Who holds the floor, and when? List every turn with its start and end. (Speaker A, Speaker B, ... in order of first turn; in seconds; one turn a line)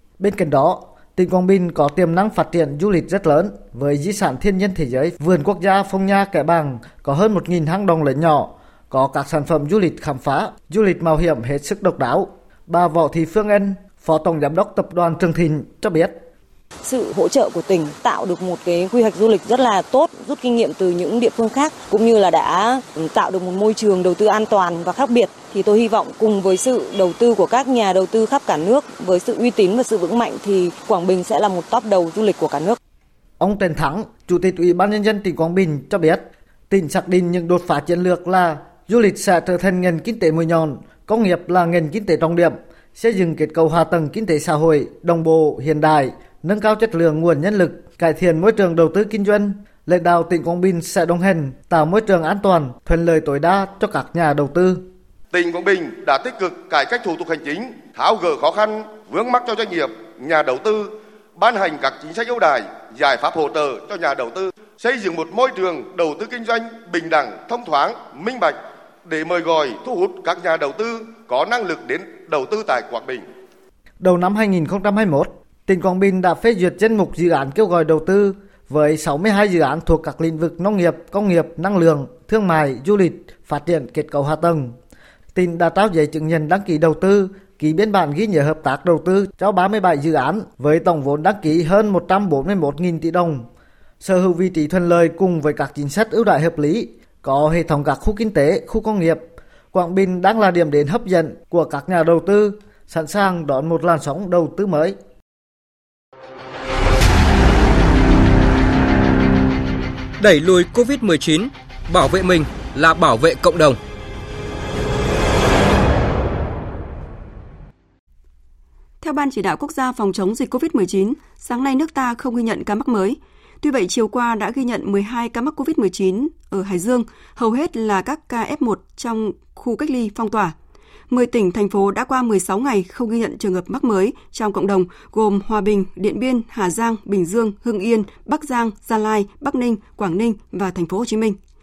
Speaker A: 0.2-16.2
Speaker B: 16.8-32.8
Speaker A: 33.4-54.9
Speaker C: 55.3-73.3
Speaker A: 74.0-84.8
Speaker A: 85.3-93.5
Speaker A: 94.0-105.0
Speaker D: 110.2-113.8
Speaker E: 119.0-130.6
Speaker E: 131.1-141.4